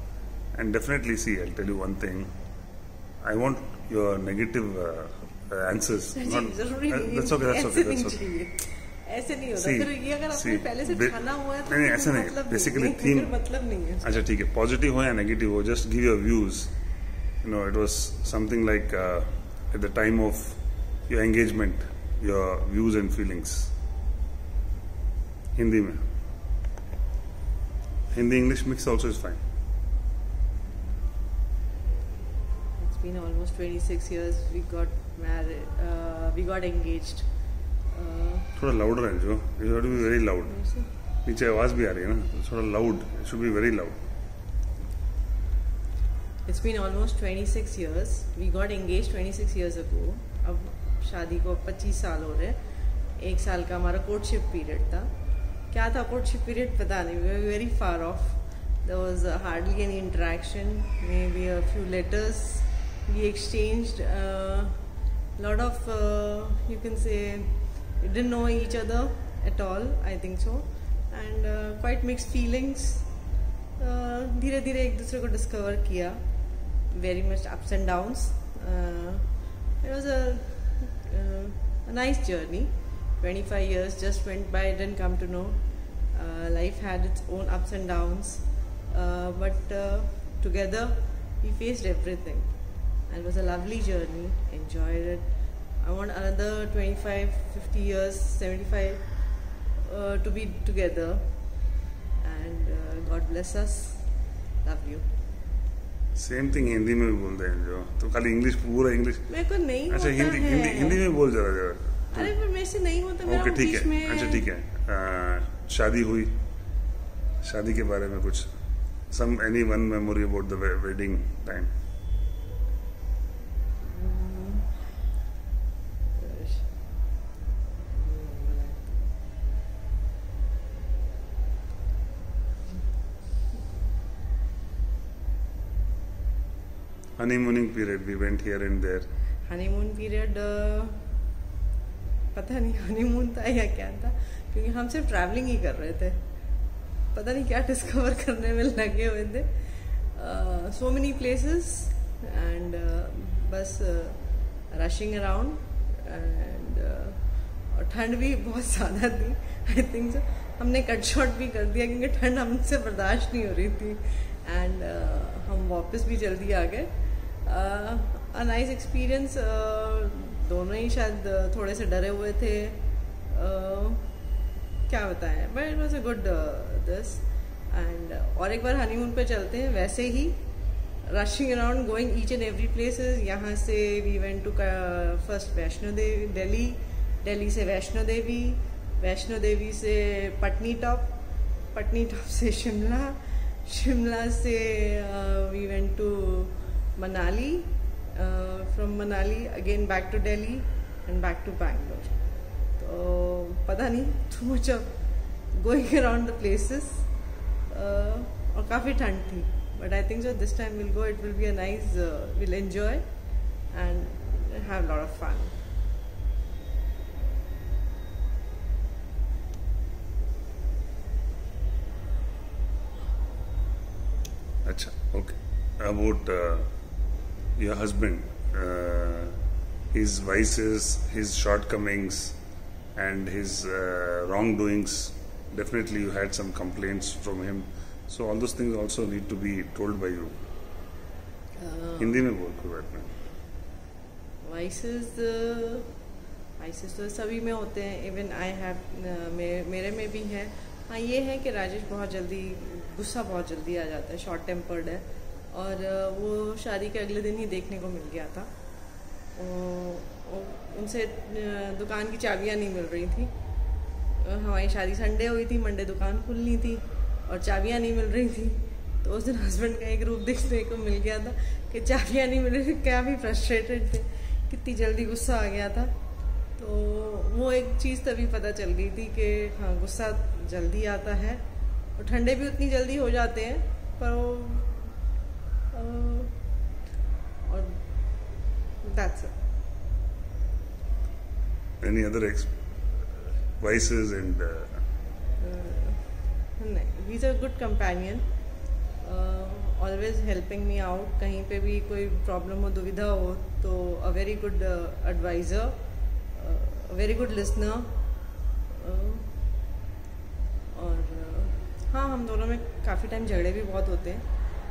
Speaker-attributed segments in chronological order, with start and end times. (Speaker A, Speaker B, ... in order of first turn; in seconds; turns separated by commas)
Speaker A: 0.5-2.3, Speaker A: 3.2-8.2, Speaker B: 6.1-14.1, Speaker A: 9.6-13.3, Speaker A: 14.0-16.7, Speaker A: 17.4-23.7, Speaker A: 25.6-26.0, Speaker A: 28.1-29.4, Speaker B: 32.8-37.2, Speaker B: 37.9-38.5, Speaker A: 38.5-40.6, Speaker B: 40.4-40.9, Speaker A: 41.2-44.0, Speaker B: 46.5-52.6, Speaker B: 53.1-55.1, Speaker B: 55.7-64.8, Speaker B: 65.4-73.1, Speaker B: 73.8-76.2, Speaker B: 76.9-92.5, Speaker B: 93.1-99.0, Speaker B: 99.8-101.3, Speaker B: 102.2-104.1, Speaker B: 104.6-105.0, Speaker A: 106.1-109.2, Speaker B: 109.3-111.0, Speaker A: 109.9-112.3, Speaker B: 112.1-114.4, Speaker A: 113.2-116.4, Speaker A: 117.4-118.5, Speaker A: 119.1-121.7, Speaker B: 123.8-125.0, Speaker B: 126.1-126.8, Speaker B: 127.9-129.1, Speaker A: 137.2-139.1, Speaker B: 139.5-141.0, Speaker B: 142.3-146.2, Speaker B: 147.1-174.1, Speaker B: 174.9-180.4, Speaker B: 181.0-191.2, Speaker B: 191.7-202.2, Speaker B: 202.8-205.0, Speaker B: 205.5-207.1, Speaker B: 207.7-213.1, Speaker B: 213.7-215.6, Speaker A: 224.6-226.7, Speaker A: 227.6-229.3, Speaker A: 229.9-232.4, Speaker A: 232.9-240.3, Speaker B: 241.6-242.2, Speaker A: 242.0-243.1, Speaker B: 244.4-245.9, Speaker B: 246.6-258.5, Speaker B: 259.3-263.3, Speaker B: 264.1-275.9, Speaker B: 276.6-281.4, Speaker B: 281.9-284.9, Speaker B: 285.7-286.4, Speaker B: 287.4-287.8, Speaker B: 288.8-289.3, Speaker A: 291.8-293.1, Speaker A: 293.6-294.8, Speaker B: 295.4-298.2, Speaker B: 299.0-305.8, Speaker B: 306.3-307.9, Speaker B: 308.7-309.3, Speaker B: 310.7-314.2